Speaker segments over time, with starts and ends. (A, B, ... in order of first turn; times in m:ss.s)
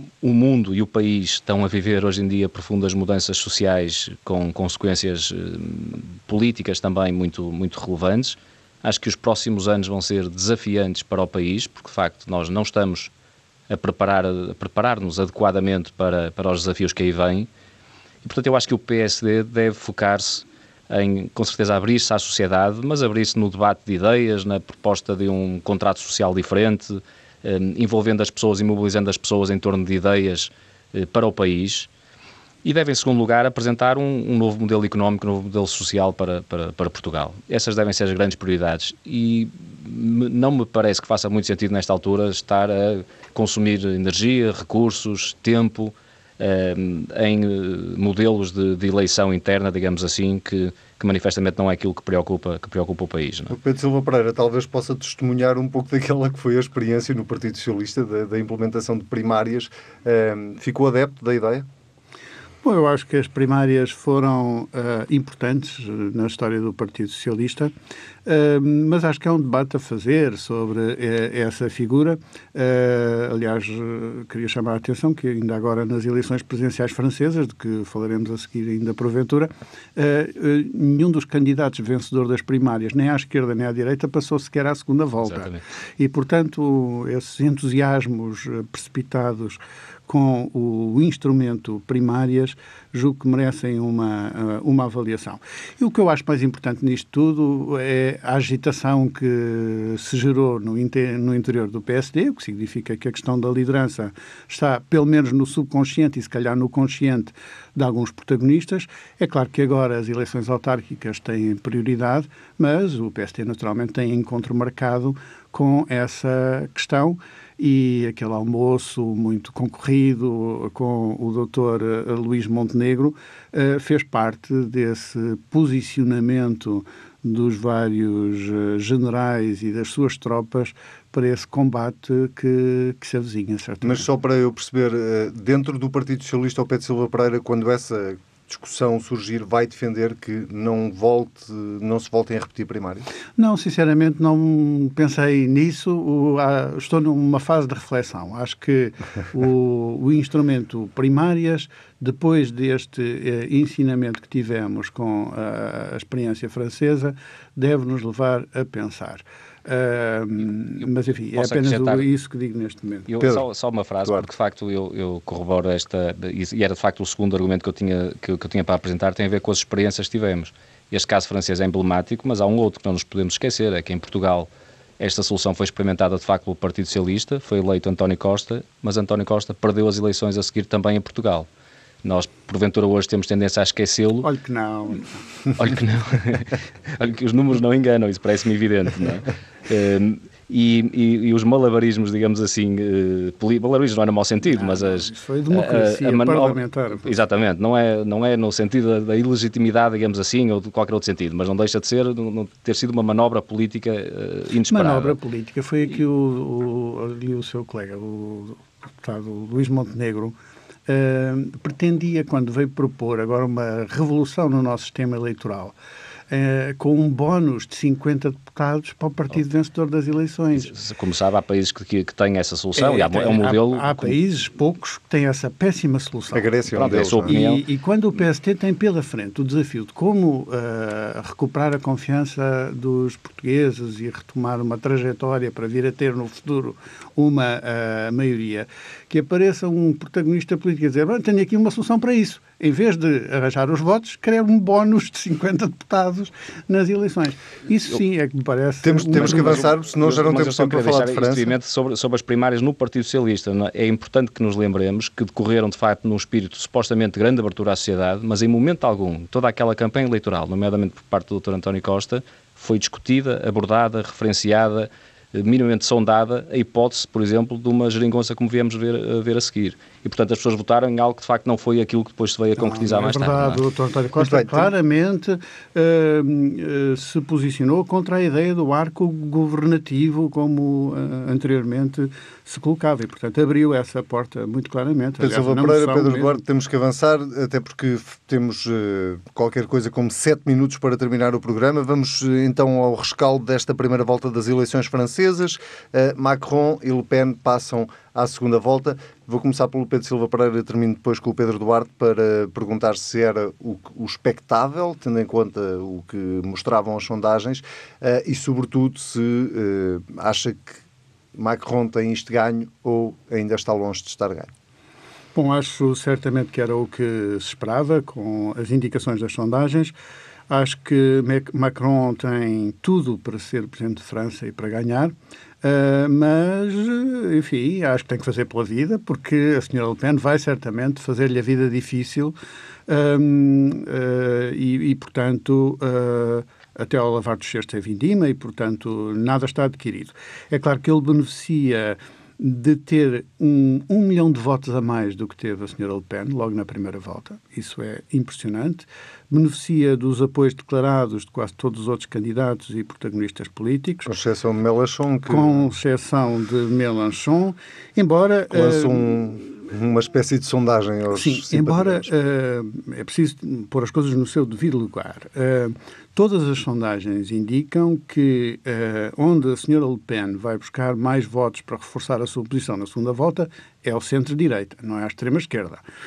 0:00.2-0:13.1 A
0:13.7-0:17.5 A
0:18.2-0:31.9 A
0:32.6-0:53.6 A
0:53.5-1:01.6 B
1:02.6-1:07.7 C
1:08.2-2:14.1 C
1:25.2-1:25.6 A
2:13.8-2:23.0 B
2:23.4-2:43.1 C
2:41.3-2:42.1 A
2:43.1-3:01.5 A
3:02.0-3:04.3 A
3:04.2-3:05.2 C
3:05.6-3:25.2 A
3:14.5-3:17.1 C
3:24.7-3:30.4 C
3:30.9-3:35.7 C
3:36.3-3:40.7 C
3:40.6-3:44.2 A
3:42.8-4:09.7 C
3:46.3-3:47.3 B
3:46.7-3:47.6 A
4:08.8-4:11.5 B
4:09.2-4:33.6 A
4:32.6-4:46.4 C
4:34.2-4:34.7 B
4:45.2-5:10.8 B
5:11.3-5:14.5 B
5:15.3-5:19.9 C
5:20.5-5:32.3 C
5:32.9-5:54.1 C
5:54.1-5:55.6 B
5:55.3-5:59.2 C
5:58.5-6:02.1 B
6:01.1-6:15.8 C